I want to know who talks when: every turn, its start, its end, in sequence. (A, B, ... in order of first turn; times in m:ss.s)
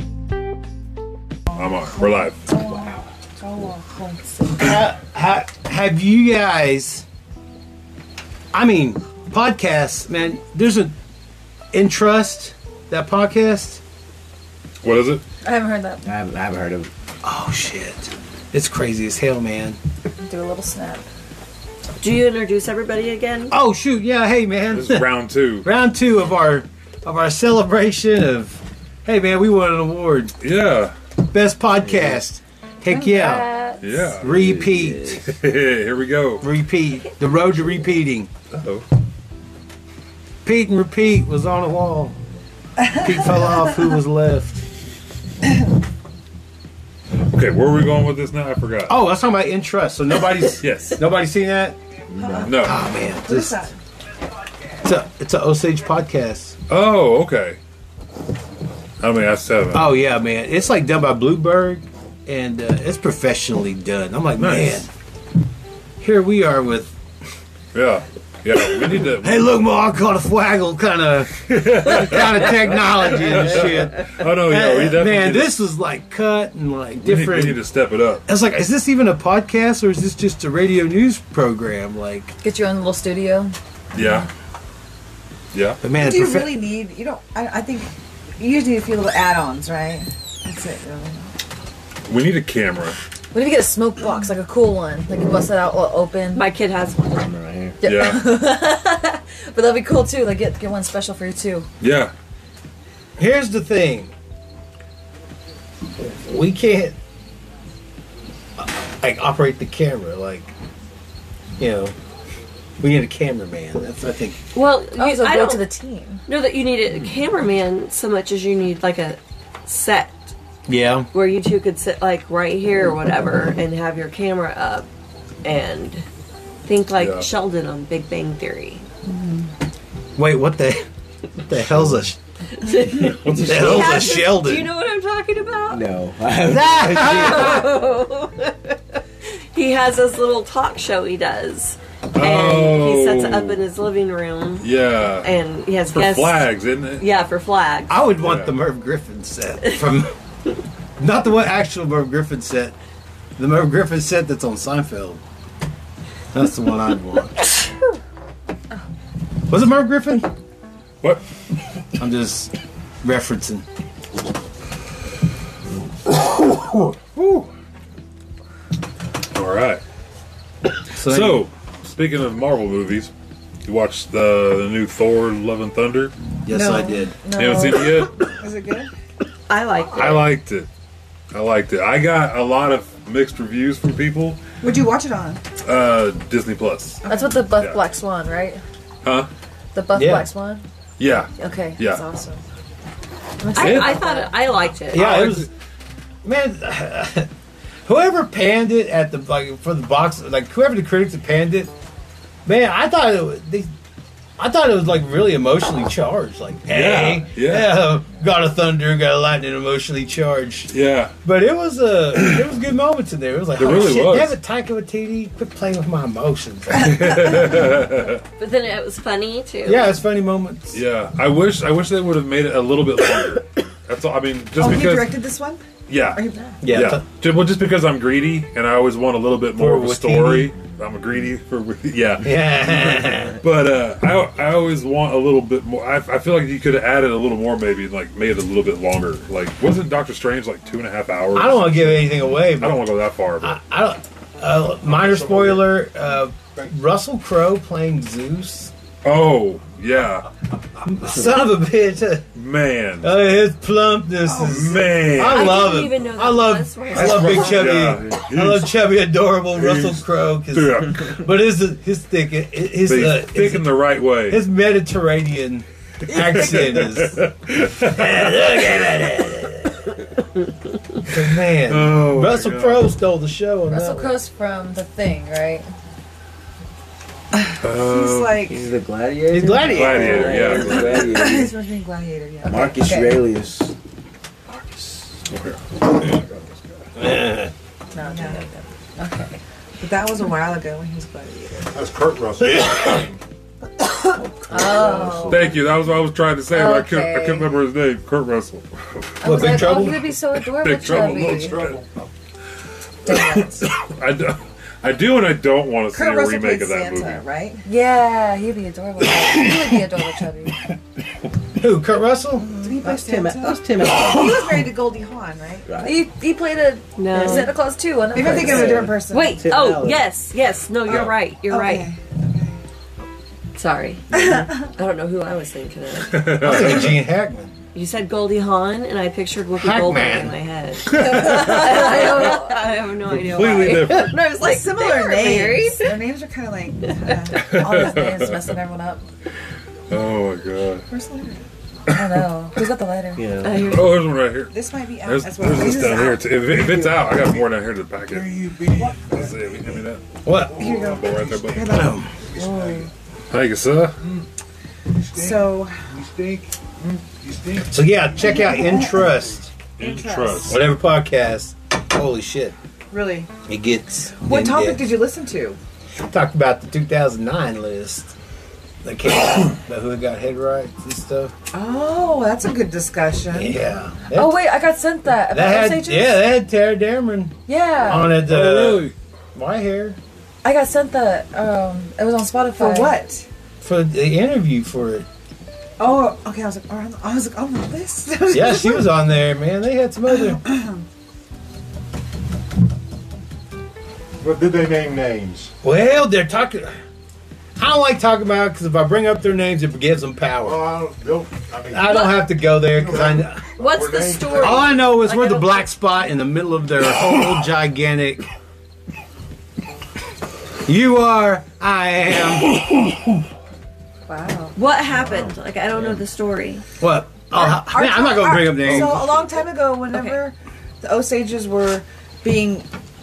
0:01.5-0:02.4 A
0:01.5-0:04.7 B
0:04.5-0:07.1 C
0:08.5-0:11.0 C
0:11.7-0:13.8 C
0:14.8-0:15.2 A
0:15.4-0:16.1 D
0:16.0-0:16.9 E
0:17.2-0:19.8 C
0:20.2-0:21.0 D
0:22.0-0:23.6 F
0:23.5-0:30.4 C
0:24.7-0:25.7 A
0:30.4-0:31.0 A
0:31.3-0:33.5 C
0:32.9-0:34.1 D
0:33.8-0:34.4 A
0:34.2-0:35.2 C
0:34.3-0:35.2 E
0:35.2-0:36.5 A
0:36.4-0:38.3 C
0:38.5-0:38.9 A
0:40.4-0:42.2 C
0:42.8-0:43.1 B
0:42.9-0:44.6 C
0:47.2-0:49.0 A
0:48.9-0:51.8 C
0:50.6-0:51.0 A
0:52.1-0:52.6 E
0:52.2-0:53.8 B
0:52.4-0:52.8 A
0:52.6-0:53.6 C
0:54.8-0:56.6 C
0:56.7-0:57.6 A
0:59.0-1:00.0 A
0:59.7-1:04.9 C
1:04.4-1:04.8 A
1:06.0-1:07.0 C
1:07.7-1:09.5 A
1:08.5-1:17.6 C
1:11.5-1:15.6 A
1:17.0-1:18.2 A
1:18.3-1:22.4 C
1:22.4-1:23.6 D
1:23.9-1:24.3 A
1:25.5-1:25.8 A
1:25.8-1:26.6 C
1:25.9-1:31.3 B
1:32.1-1:33.0 A
1:33.3-1:36.4 D
1:36.4-1:37.3 F
1:37.1-1:37.8 E
1:37.8-1:41.7 D
1:37.8-1:38.3 A
1:41.8-1:42.1 A
1:43.2-1:44.1 C
1:46.0-1:47.0 C
1:48.6-1:50.5 C
1:51.6-1:52.0 C
1:52.8-1:54.4 C
1:54.5-1:55.7 F
1:55.0-1:56.2 D
1:56.3-2:00.3 F
2:00.7-2:01.1 C
2:01.1-2:04.9 F
2:05.4-2:06.1 F
2:06.6-2:08.8 F
2:07.0-2:07.3 A
2:09.1-2:09.5 B
2:10.2-2:10.9 C
2:11.4-2:12.2 C
2:12.5-2:15.9 F
2:13.1-2:14.2 A
2:13.4-2:14.7 C
2:15.7-2:17.5 E
2:16.4-2:17.7 C
2:16.9-2:18.8 F
2:19.5-2:24.7 F
2:22.1-2:23.6 A
2:24.6-2:25.3 A
2:25.2-2:26.5 F
2:25.9-2:27.0 A
2:27.0-2:28.0 F
2:27.9-2:30.1 C
2:28.2-2:28.6 A
2:31.0-2:32.7 C
2:33.4-2:35.2 C
2:36.3-2:37.4 C
2:39.5-2:40.3 C
2:42.0-2:42.5 C
2:43.0-2:43.7 C
2:46.1-2:47.5 A
2:49.3-2:49.8 A
2:51.0-2:51.5 C
2:51.0-2:53.1 A
2:53.6-2:56.1 A
2:56.4-2:57.2 C
2:56.5-2:57.1 B
2:57.2-2:58.0 D
2:57.4-2:58.3 A
2:58.4-2:58.9 B
2:59.5-3:00.4 F
2:59.9-3:00.7 A
3:01.3-3:04.4 A
3:04.6-3:05.4 B
3:05.6-3:07.0 A
3:07.0-3:07.4 B
3:07.1-3:08.6 D
3:09.0-3:09.3 A
3:09.7-3:10.6 D
3:09.9-3:10.3 C
3:11.0-3:12.0 A
3:11.4-3:12.4 D
3:13.4-3:14.3 D
3:13.5-3:15.2 F
3:13.6-3:14.0 A
3:14.9-3:15.5 A
3:14.9-3:15.5 C
3:16.2-3:17.3 C
3:17.9-3:21.7 C
3:22.4-3:23.7 C
3:24.4-3:30.7 C
3:26.7-3:27.8 A
3:30.7-3:31.2 A
3:31.2-3:37.3 C
3:33.6-3:34.4 A
3:36.7-3:38.2 A
3:38.4-3:40.0 F
3:39.6-3:40.8 C
3:40.7-3:45.2 A
3:44.6-3:46.6 B
3:45.9-4:03.6 A
3:46.6-3:47.0 C
3:49.6-3:50.5 C
3:52.2-3:53.4 C
4:01.3-4:02.8 C
4:03.4-4:08.7 C
4:04.7-4:06.9 G
4:09.0-4:10.3 A
4:10.8-4:12.3 C
4:12.4-4:13.1 A
4:13.0-4:27.2 C
4:14.4-4:15.8 A
4:14.4-4:15.0 G
4:15.2-4:17.9 F
4:17.0-4:18.8 A
4:19.5-4:21.2 A
4:22.8-4:24.4 A
4:26.1-4:28.9 A
4:27.8-4:29.8 C
4:31.1-4:34.2 C
4:31.5-4:32.9 A
4:33.7-4:35.7 D
4:37.4-4:38.7 B
4:37.6-4:38.4 A
4:38.4-4:41.6 E
4:39.3-4:40.7 C
4:39.6-4:41.2 A
4:40.6-4:42.8 B
4:42.4-4:43.7 E
4:42.8-4:43.2 D
4:46.0-4:46.6 G
4:47.0-4:47.5 C
4:47.9-4:49.4 D
4:48.1-4:48.4 B
4:49.8-4:51.7 B
4:51.7-4:53.2 G
4:54.2-4:55.5 E
4:54.5-4:55.6 D
4:55.3-4:58.7 A
4:56.5-4:57.5 D
4:59.2-5:01.6 D
4:59.2-5:01.8 A
4:59.2-5:00.0 C
5:00.9-5:01.9 G
5:03.1-5:03.7 D
5:03.1-5:07.2 A
5:05.9-5:07.6 B
5:07.7-5:10.6 D
5:11.6-5:12.5 C
5:12.4-5:12.7 D
5:12.6-5:15.7 B
5:12.7-5:14.7 E
5:15.7-5:16.0 E
5:15.8-5:18.9 D
5:17.0-5:17.5 F
5:18.1-5:19.5 B
5:18.2-5:20.1 E
5:19.1-5:21.9 F
5:21.5-5:22.6 B
5:23.6-5:26.9 F
5:24.2-5:24.5 B
5:26.1-5:27.0 A
5:26.4-5:27.5 C
5:27.7-5:36.0 F
5:29.6-5:30.4 C
5:30.9-5:32.5 D
5:30.9-5:31.7 A
5:31.8-5:32.2 B
5:33.1-5:34.2 A
5:34.4-5:37.9 B
5:37.3-5:38.6 A
5:37.4-5:39.0 D
5:39.9-5:40.9 A
5:40.9-5:41.4 B
5:41.9-5:42.3 A
5:41.9-5:43.3 D
5:43.2-5:43.9 E
5:43.4-5:44.1 F
5:43.7-5:48.4 A
5:44.5-5:46.4 B
5:46.4-5:47.4 G
5:48.1-5:52.9 G
5:49.1-5:50.0 A
5:50.2-5:50.6 C
5:50.6-5:52.0 B
5:50.6-5:51.7 A
5:51.7-5:52.1 C
5:52.4-5:52.8 D
5:53.3-5:54.0 A
5:54.0-5:54.3 G
5:55.0-5:59.4 G
5:55.2-5:55.8 B
5:57.7-5:59.5 C
5:58.2-5:59.1 B
5:59.8-6:00.6 A
5:59.8-6:00.6 B
6:00.5-6:02.6 C
6:02.9-6:03.3 B
6:03.4-6:04.9 C
6:04.2-6:05.6 B
6:06.0-6:08.1 C
6:08.8-6:11.3 C
6:11.5-6:13.6 B
6:13.3-6:14.4 C
6:14.1-6:16.3 D
6:15.3-6:20.0 C
6:17.5-6:18.2 D
6:18.2-6:18.9 A
6:20.4-6:23.0 D
6:22.6-6:23.3 B
6:23.6-6:25.1 C
6:25.8-6:29.0 B
6:28.3-6:30.4 C
6:30.1-6:30.8 B
6:34.2-6:35.5 G
6:35.6-6:36.8 C
6:37.6-6:40.7 C
6:40.4-6:44.8 G
6:41.7-6:43.4 C
6:41.8-6:42.4 F
6:43.6-6:45.7 F
6:44.3-6:48.3 C
6:50.6-6:52.8 C
6:54.1-6:54.5 B
6:54.6-6:56.6 F
6:56.8-6:59.1 C
6:57.3-7:02.7 B
6:58.6-6:59.1 A
6:59.9-7:00.2 F